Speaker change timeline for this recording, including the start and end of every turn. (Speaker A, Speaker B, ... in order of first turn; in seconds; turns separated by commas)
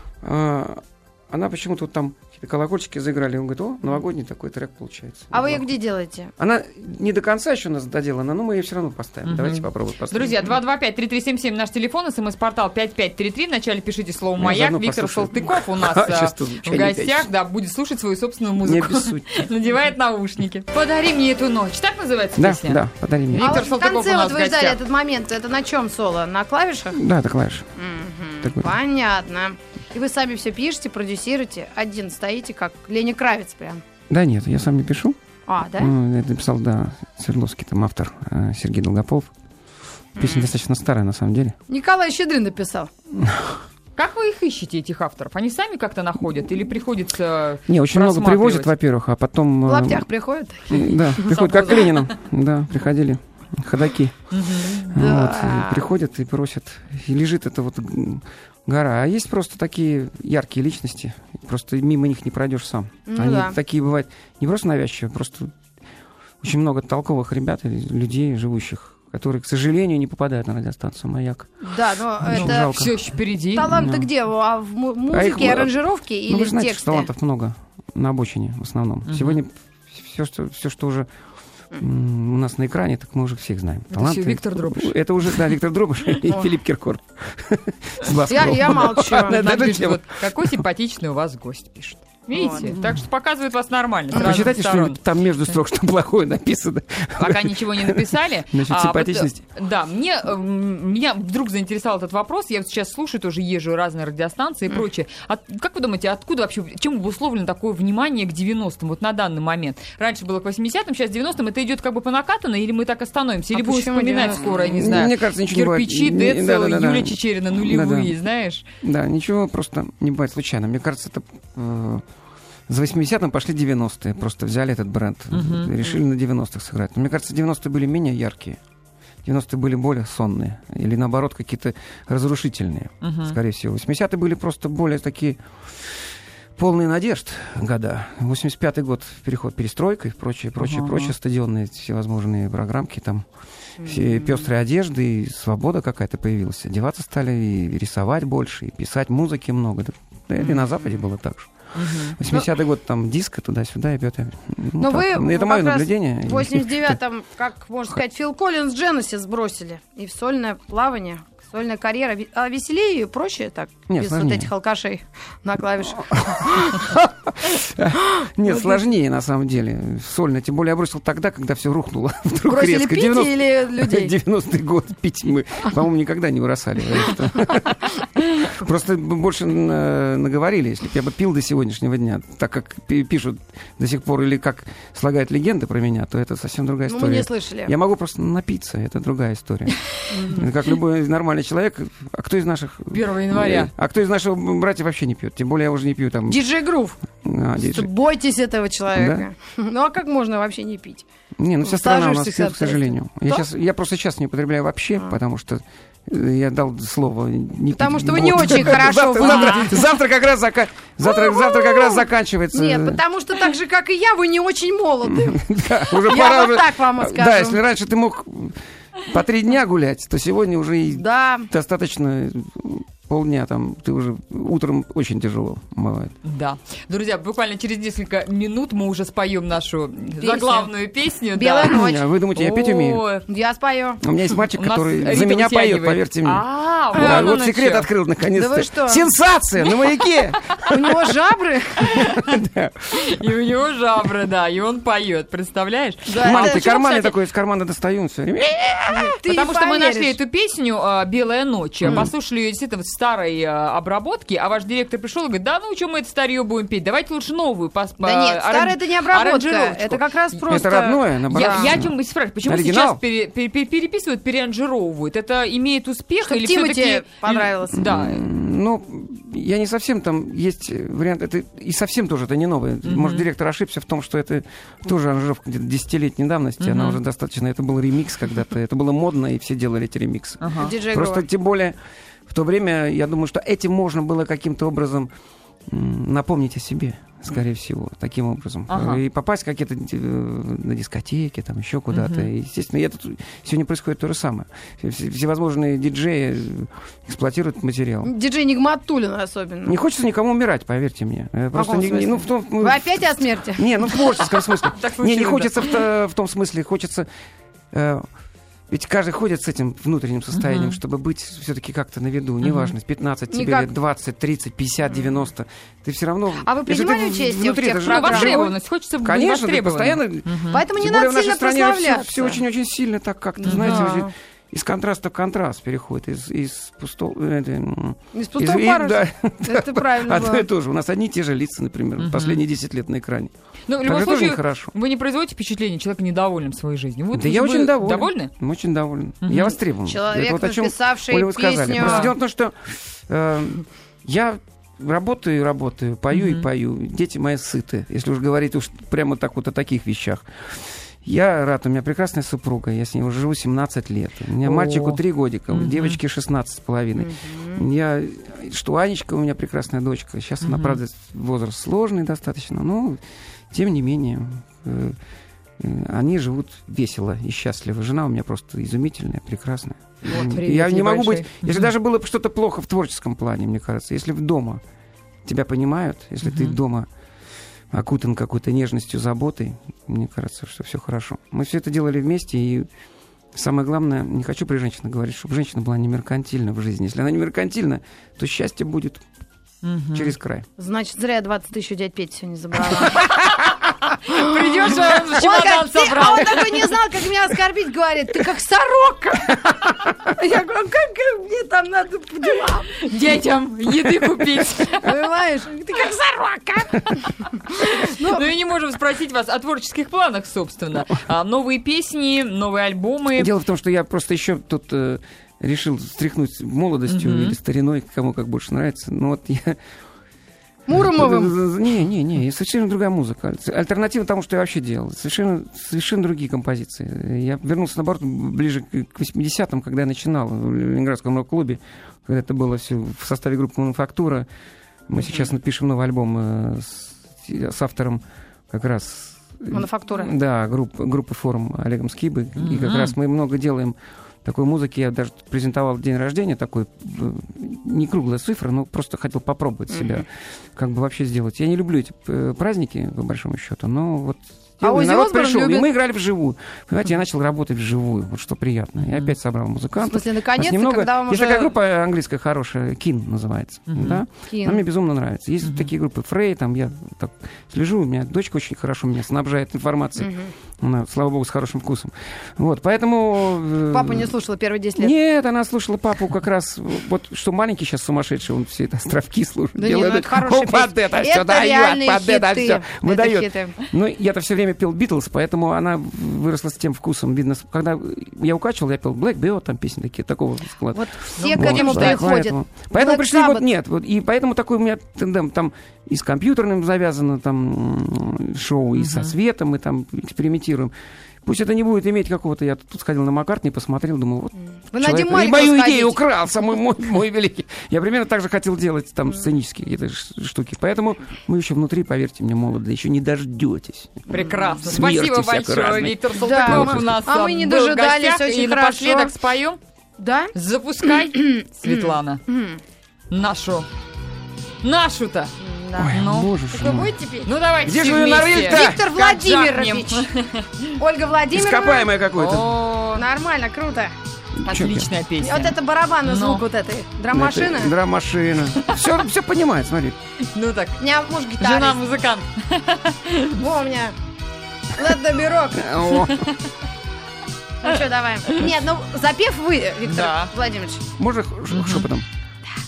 Speaker A: 0.2-5.7, Speaker B: 5.3-6.3, Speaker A: 6.4-10.6, Speaker C: 9.2-24.8, Speaker A: 14.4-17.3, Speaker A: 18.6-19.5, Speaker A: 22.4-23.6, Speaker B: 23.4-27.0, Speaker A: 26.9-27.7, Speaker B: 27.8-33.8, Speaker A: 28.4-28.8, Speaker A: 34.1-35.1, Speaker B: 35.5-35.9, Speaker A: 35.8-39.3, Speaker A: 40.1-41.6, Speaker B: 40.2-40.5, Speaker B: 41.7-42.9, Speaker A: 43.1-43.6, Speaker C: 44.0-48.7, Speaker A: 47.7-50.1, Speaker B: 49.6-51.9, Speaker A: 50.7-65.5, Speaker C: 54.3-54.9, Speaker B: 54.9-55.8, Speaker B: 63.1-63.6, Speaker A: 66.4-73.0, Speaker B: 71.6-72.7, Speaker C: 72.3-73.8, Speaker B: 73.5-77.1, Speaker A: 73.7-74.1, Speaker A: 75.1-81.1, Speaker C: 79.1-79.4, Speaker A: 81.7-90.6, Speaker C: 83.9-85.5, Speaker B: 88.2-89.4, Speaker C: 88.7-95.0, Speaker B: 92.3-92.7, Speaker A: 92.7-93.0, Speaker A: 94.1-99.5, Speaker C: 97.2-118.6, Speaker B: 113.5-115.0, Speaker A: 114.6-118.1, Speaker A: 118.8-122.0, Speaker A: 122.7-128.6, Speaker C: 125.3-125.7, Speaker A: 129.2-143.2, Speaker C: 133.0-133.4, Speaker C: 140.6-141.1, Speaker B: 143.8-144.5, Speaker A: 143.8-151.5, Speaker C: 151.7-152.2, Speaker A: 152.1-157.0, Speaker B: 154.8-166.9, Speaker A: 163.9-164.5, Speaker A: 166.1-196.4, Speaker B: 168.2-168.8, Speaker B: 172.5-174.1, Speaker B: 186.9-187.7, Speaker B: 190.1-190.5, Speaker C: 192.9-193.7, Speaker B: 196.3-197.0, Speaker A: 197.2-197.9, Speaker B: 197.6-201.1, Speaker A: 198.9-199.2, Speaker A: 201.4-213.0, Speaker B: 201.6-203.4, Speaker B: 207.8-209.8, Speaker C: 209.2-209.7, Speaker B: 211.0-215.4, Speaker A: 215.0-226.1, Speaker B: 215.9-217.6, Speaker B: 220.9-221.5, Speaker C: 226.2-231.8, Speaker B: 230.2-230.7, Speaker B: 231.3-232.0, Speaker A: 231.6-233.0, Speaker C: 232.3-233.2, Speaker B: 233.3-234.0, Speaker A: 234.0-241.0, Speaker C: 234.5-237.9, Speaker B: 236.9-237.3, Speaker B: 238.3-239.0, Speaker B: 240.7-242.1, Speaker A: 241.8-243.2, Speaker C: 241.9-242.3, Speaker C: 242.9-247.1, Speaker B: 246.1-246.6, Speaker A: 246.2-249.2, Speaker B: 248.9-250.2, Speaker C: 249.2-260.7, Speaker A: 251.8-252.1, Speaker B: 251.8-252.1, Speaker B: 258.0-261.7, Speaker A: 260.5-263.0, Speaker C: 261.3-268.2, Speaker B: 266.2-267.9, Speaker A: 267.7-285.1, Speaker C: 272.8-273.2, Speaker C: 276.6-277.0, Speaker C: 280.4-280.7, Speaker B: 280.6-281.2, Speaker A: 285.7-298.1, Speaker C: 288.7-289.0, Speaker C: 291.9-292.3, Speaker B: 298.0-299.8, Speaker A: 299.6-307.1, Speaker B: 301.5-303.9, Speaker C: 304.4-305.8, Speaker A: 307.7-308.1, Speaker A: 308.7-333.3, Speaker C: 310.3-310.8, Speaker C: 312.4-312.7, Speaker B: 313.3-313.7, Speaker B: 316.4-318.5, Speaker C: 317.8-320.6, Speaker B: 320.5-322.4, Speaker C: 323.4-323.9, Speaker B: 323.4-324.1, Speaker B: 328.1-330.4, Speaker C: 332.0-332.4, Speaker C: 333.7-338.3, Speaker A: 333.8-334.7, Speaker A: 337.1-365.0, Speaker C: 339.2-339.6, Speaker B: 339.8-342.1, Speaker C: 341.8-342.1, Speaker C: 346.1-346.4, Speaker C: 354.4-356.0, Speaker B: 357.0-357.6, Speaker C: 360.4-360.8, Speaker A: 365.6-374.6, Speaker C: 370.1-371.7, Speaker A: 375.2-376.9, Speaker C: 376.2-376.6, Speaker A: 377.7-382.7, Speaker A: 383.3-389.0, Speaker C: 389.6-390.1, Speaker A: 389.9-390.5, Speaker B: 390.6-393.4, Speaker C: 394.0-396.7, Speaker B: 394.0-402.8, Speaker C: 402.8-404.9, Speaker B: 404.7-408.2, Speaker C: 407.8-413.3, Speaker A: 413.1-419.6, Speaker C: 416.9-417.4, Speaker B: 420.7-421.3, Speaker A: 420.7-434.3, Speaker A: 434.9-474.1, Speaker B: 439.5-440.1, Speaker C: 442.4-442.9, Speaker B: 449.7-450.0, Speaker B: 454.6-455.7, Speaker C: 458.8-459.1, Speaker B: 459.9-461.5, Speaker C: 463.7-464.0, Speaker B: 464.3-464.6, Speaker B: 470.0-470.3, Speaker B: 473.7-474.9, Speaker A: 474.8-500.7, Speaker B: 479.6-483.6, Speaker B: 490.7-493.4, Speaker C: 491.1-492.1, Speaker C: 498.8-499.1, Speaker A: 501.2-516.9, Speaker B: 504.7-506.0, Speaker C: 514.1-519.6, Speaker B: 516.2-519.1, Speaker B: 520.0-520.3, Speaker C: 520.3-522.2, Speaker B: 520.8-522.6, Speaker C: 523.1-523.7, Speaker C: 524.6-525.3, Speaker B: 525.4-527.3, Speaker A: 525.8-526.9, Speaker C: 525.9-526.3, Speaker C: 527.2-530.8, Speaker A: 527.6-528.8, Speaker B: 528.4-530.1, Speaker B: 530.8-531.9, Speaker A: 531.3-532.5, Speaker C: 532.2-533.0, Speaker B: 532.9-533.9, Speaker A: 534.4-534.9, Speaker C: 534.4-536.4, Speaker B: 535.2-537.7, Speaker A: 537.1-540.0, Speaker C: 540.3-540.8, Speaker B: 540.8-541.8, Speaker C: 541.4-543.4, Speaker B: 543.4-543.9, Speaker B: 544.8-545.7, Speaker A: 545.5-546.2, Speaker B: 547.6-550.8, Speaker C: 549.9-550.3, Speaker A: 551.0-552.0, Speaker C: 551.5-551.9